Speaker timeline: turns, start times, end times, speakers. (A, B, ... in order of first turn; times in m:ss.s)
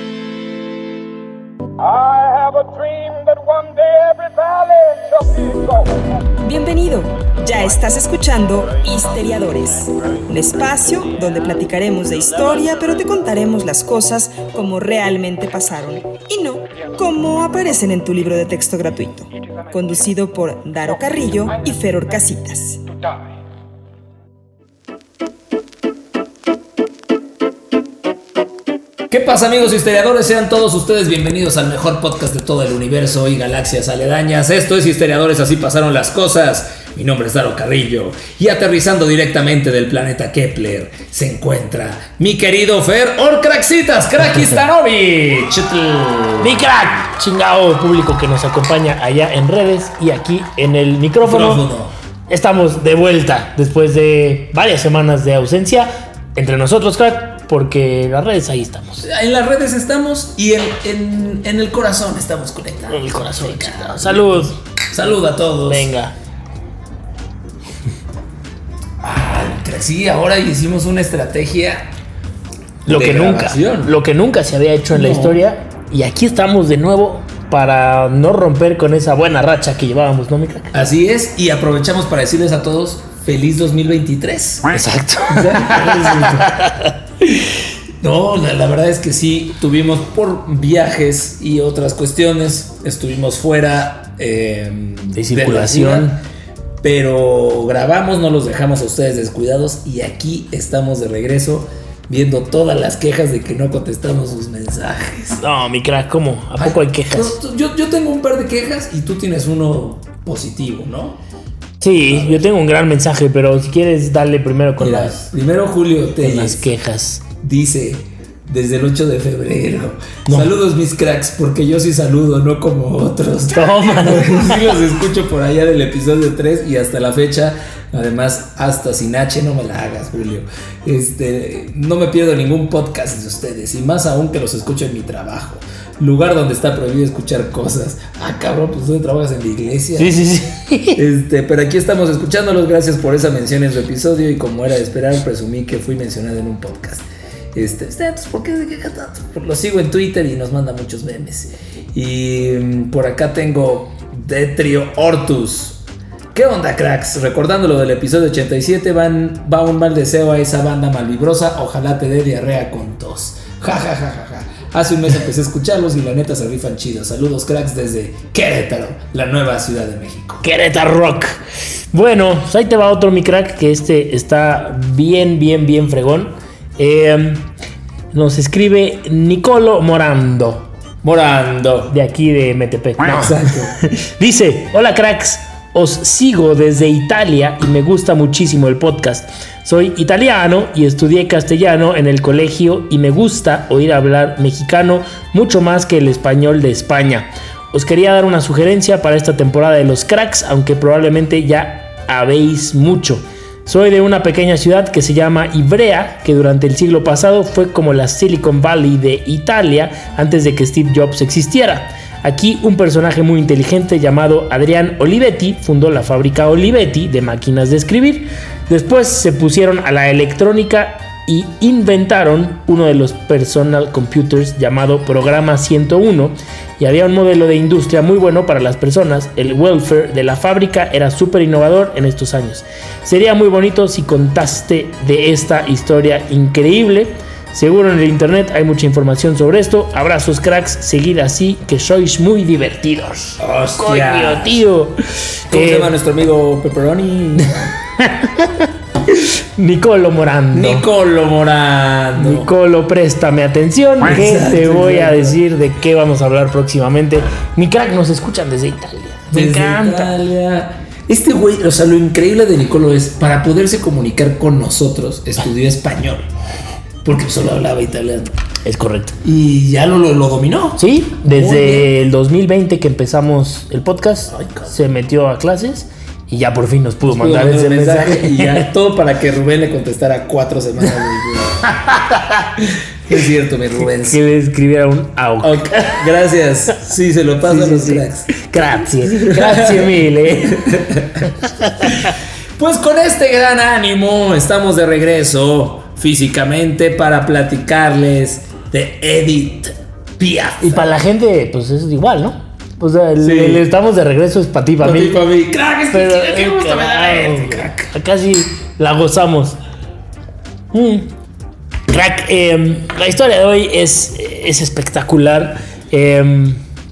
0:06.4-0:22.8 A
0:29.1-0:46.5 B
0:46.4-0:51.6 C
0:51.2-0:51.9 B
0:52.3-0:59.0 C
0:59.0-1:05.9 B
1:02.9-1:04.6 C
1:05.6-1:06.1 C
1:09.0-1:11.9 B
1:12.8-1:20.7 C
1:12.9-1:14.0 B
1:14.9-1:15.4 B
1:20.7-1:24.7 B
1:24.7-1:26.9 C
1:25.3-1:26.5 B
1:27.3-1:36.2 B
1:35.1-1:36.2 C
1:36.8-1:45.4 B
1:45.4-1:47.4 C
1:46.6-1:51.2 B
1:51.8-1:55.2 C
1:52.1-1:52.5 B
1:54.8-1:56.7 B
1:56.2-1:57.2 C
1:57.4-2:20.3 B
2:03.5-2:04.6 C
2:20.0-2:21.0 C
2:21.0-2:35.8 B
2:36.3-2:50.4 B
2:50.4-2:51.4 C
2:51.9-2:57.5 C
2:58.1-3:00.7 C
3:01.0-3:01.9 B
3:01.9-4:05.9 C
3:03.0-3:03.7 B
4:03.4-4:04.6 B
4:05.5-4:07.7 B
4:08.0-4:10.9 C
4:10.5-4:12.5 B
4:12.2-4:20.2 C
4:14.0-4:15.4 B
4:19.3-4:26.3 B
4:27.0-4:28.4 B
4:28.6-4:29.2 C
4:29.2-4:31.9 B
4:30.8-4:38.7 C
4:34.3-4:34.7 B
4:37.1-4:41.6 B
4:41.8-4:42.6 C
4:42.6-4:44.2 B
4:43.9-4:46.0 C
4:45.4-4:51.3 B
4:47.4-4:50.7 C
4:51.4-4:52.1 C
4:51.8-5:00.9 B
5:00.6-5:05.2 C
5:03.2-5:03.6 B
5:04.8-5:07.9 B
5:05.9-5:09.6 C
5:10.7-5:11.1 C
5:11.9-5:16.6 C